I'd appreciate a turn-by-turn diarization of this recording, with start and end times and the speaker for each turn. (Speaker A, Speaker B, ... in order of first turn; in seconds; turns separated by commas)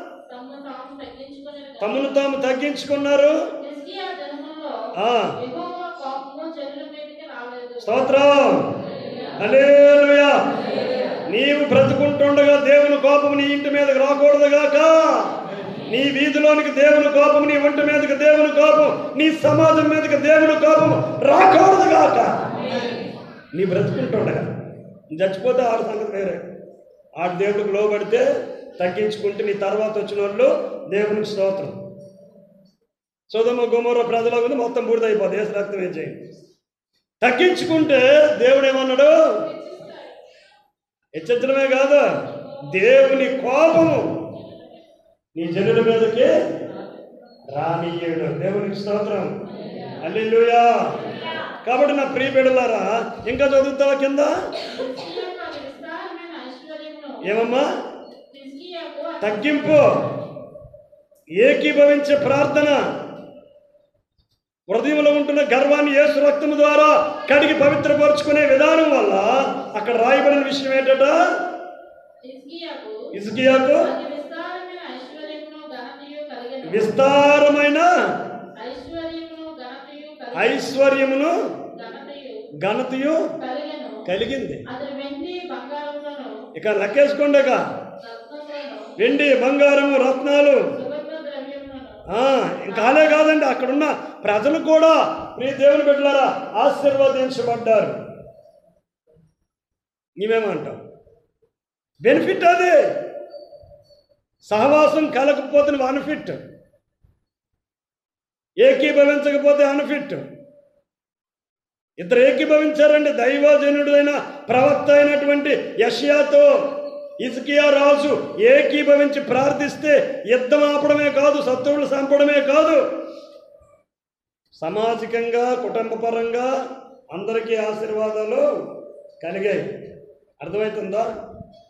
Speaker A: 0.3-2.2, Speaker B: 1.8-3.4, Speaker A: 3.6-8.0, Speaker B: 5.0-5.4, Speaker B: 7.8-8.7, Speaker A: 9.0-9.3, Speaker B: 9.4-10.6, Speaker B: 11.3-15.3, Speaker B: 15.9-22.5, Speaker B: 23.5-24.5, Speaker B: 25.1-26.4, Speaker B: 27.2-31.8, Speaker B: 33.3-36.2, Speaker B: 37.2-39.4, Speaker A: 39.4-40.2, Speaker B: 41.1-42.1, Speaker A: 42.5-42.9, Speaker B: 42.6-44.2, Speaker A: 44.2-44.9, Speaker B: 45.4-46.4, Speaker A: 46.7-47.0, Speaker B: 47.5-49.4, Speaker A: 49.5-50.0, Speaker B: 50.0-51.0, Speaker B: 51.6-54.5, Speaker A: 54.7-57.4, Speaker B: 57.2-57.7, Speaker A: 58.3-59.6, Speaker B: 59.2-60.0, Speaker B: 61.4-62.8, Speaker B: 64.7-71.2, Speaker A: 72.2-73.1, Speaker B: 73.1-73.9, Speaker A: 73.8-77.1, Speaker B: 76.7-77.9, Speaker A: 78.6-80.8, Speaker B: 80.3-81.4, Speaker A: 81.7-82.4, Speaker B: 82.6-83.3, Speaker A: 83.4-84.0, Speaker B: 84.1-84.6, Speaker A: 84.7-86.4, Speaker B: 86.5-87.6, Speaker A: 88.0-89.0, Speaker B: 89.0-90.6, Speaker A: 90.7-92.0, Speaker B: 92.1-98.0, Speaker A: 92.7-93.2, Speaker B: 100.2-100.8, Speaker B: 102.0-102.9, Speaker B: 104.5-106.4, Speaker B: 108.6-110.2, Speaker B: 112.0-116.6, Speaker B: 117.2-122.8, Speaker B: 124.6-126.5, Speaker B: 127.1-128.5, Speaker B: 129.2-129.7, Speaker B: 130.4-131.1